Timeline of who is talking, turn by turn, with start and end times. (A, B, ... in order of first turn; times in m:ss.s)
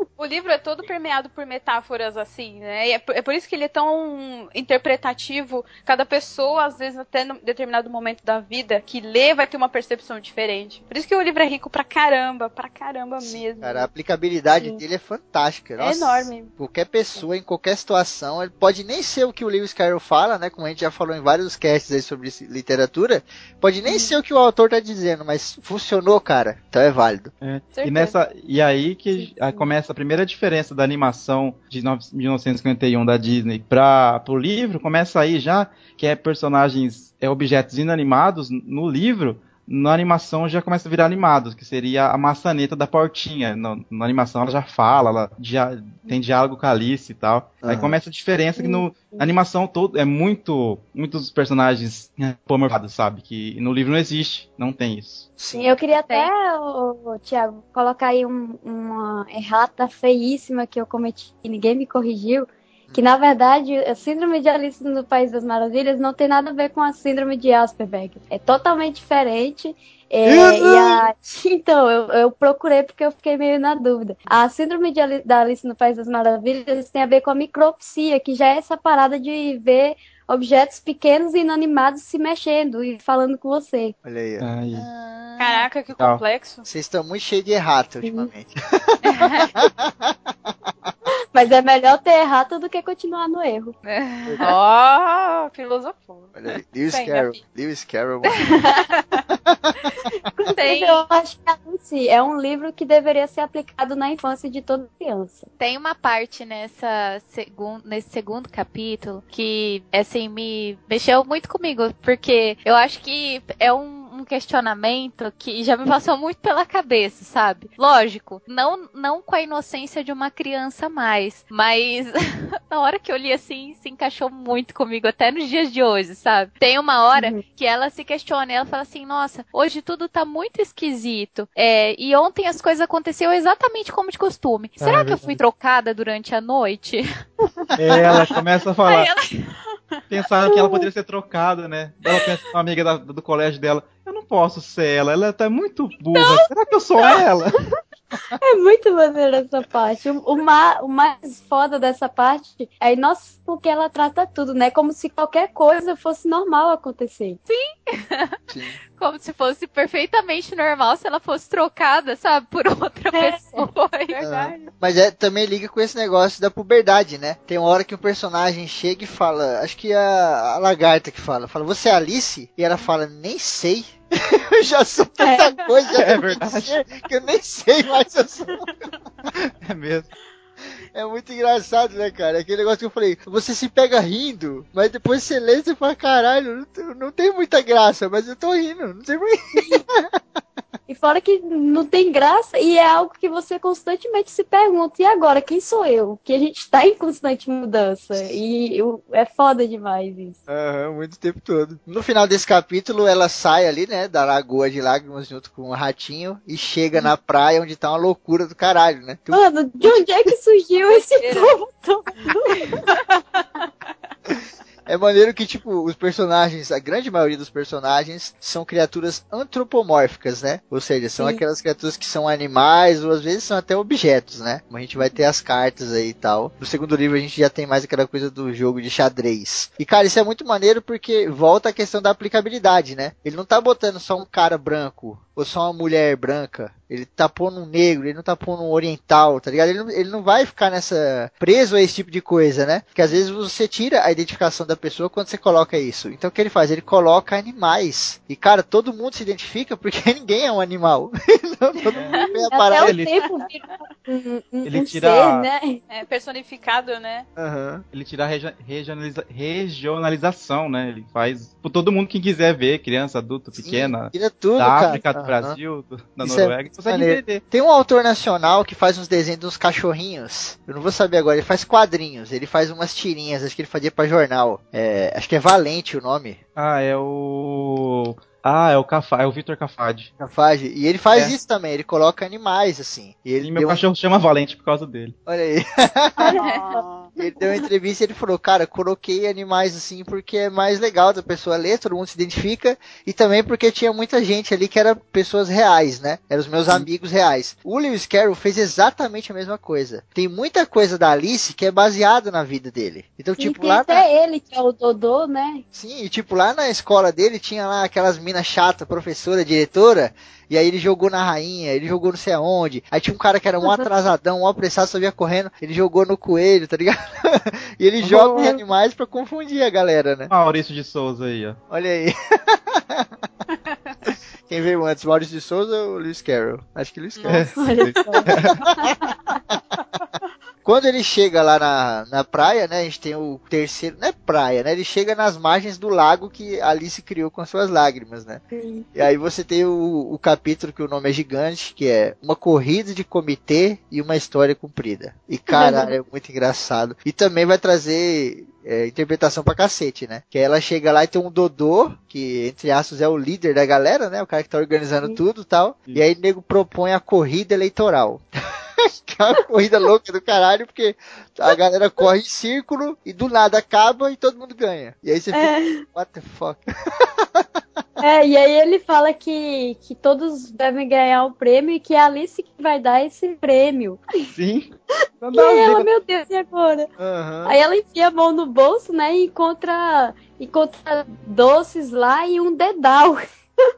0:00.2-0:13.9 A
0:13.2-0:27.3 B
0:15.8-0:16.5 A
0:27.4-0:55.3 C
0:27.7-0:28.2 A
0:47.6-0:48.0 B
0:48.6-0:49.2 D
0:55.4-0:55.7 B
0:55.5-1:24.0 D
1:10.2-1:11.0 B
1:24.0-1:24.5 B
1:24.4-1:24.9 C
1:24.8-1:25.7 E
1:25.4-1:26.6 A
1:26.6-1:30.2 B
1:28.0-1:28.3 D
1:29.0-1:29.5 E
1:31.3-1:33.8 D
1:33.9-1:34.6 E
1:34.4-1:36.4 A
1:36.4-1:38.4 B
1:36.9-1:37.4 A
1:39.5-1:39.8 B
1:40.4-1:45.5 D
1:40.5-1:41.0 E
1:45.6-2:02.1 E
2:02.7-2:17.1 E
2:07.2-2:07.4 D
2:14.8-2:15.4 C
2:17.8-2:19.1 C
2:17.9-2:18.3 E
2:18.8-2:19.5 E
2:20.1-2:27.6 C
2:20.5-2:20.8 D
2:28.4-2:37.4 D
2:37.5-2:38.4 E
2:38.5-2:38.8 B
2:39.0-2:44.2 E
2:43.2-2:43.6 D
2:44.1-2:44.7 A
2:44.2-2:58.7 B
2:55.2-2:55.5 D
2:56.0-2:56.9 C
2:59.3-3:00.1 C
3:00.9-3:10.2 B
3:09.5-3:09.8 D
3:10.9-3:20.4 D
3:20.5-3:30.0 B
3:29.3-3:32.8 D
3:30.8-3:31.6 A
3:32.7-3:33.7 A
3:34.9-4:13.0 B
4:12.2-4:15.8 D
4:12.8-4:13.2 C
4:14.6-4:15.5 C
4:15.9-4:17.3 A
4:17.4-4:17.8 B
4:17.9-4:27.4 C
4:23.6-4:25.6 B
4:26.2-4:36.4 B
4:36.6-4:40.1 C
4:40.2-4:43.8 B
4:43.4-4:45.2 C
4:45.3-4:46.4 B
4:46.2-4:46.8 D
4:46.4-4:47.1 A
4:47.2-5:04.1 B
5:03.4-5:05.6 D
5:05.7-5:20.3 B
5:18.0-5:18.4 C
5:20.3-5:21.6 C
5:21.7-5:23.1 B
5:24.1-5:27.6 B
5:27.2-5:28.2 A
5:27.3-5:28.6 C
5:27.6-5:28.9 D
5:28.4-5:28.9 B
5:30.6-5:38.4 B
5:38.5-5:38.9 D
5:39.0-5:58.3 B
5:45.5-5:45.9 D
5:58.8-6:07.5 B
6:05.3-6:05.8 D
6:08.0-6:14.0 D
6:14.3-6:15.9 C
6:15.3-6:16.9 D
6:17.0-6:17.6 B
6:17.4-6:23.2 D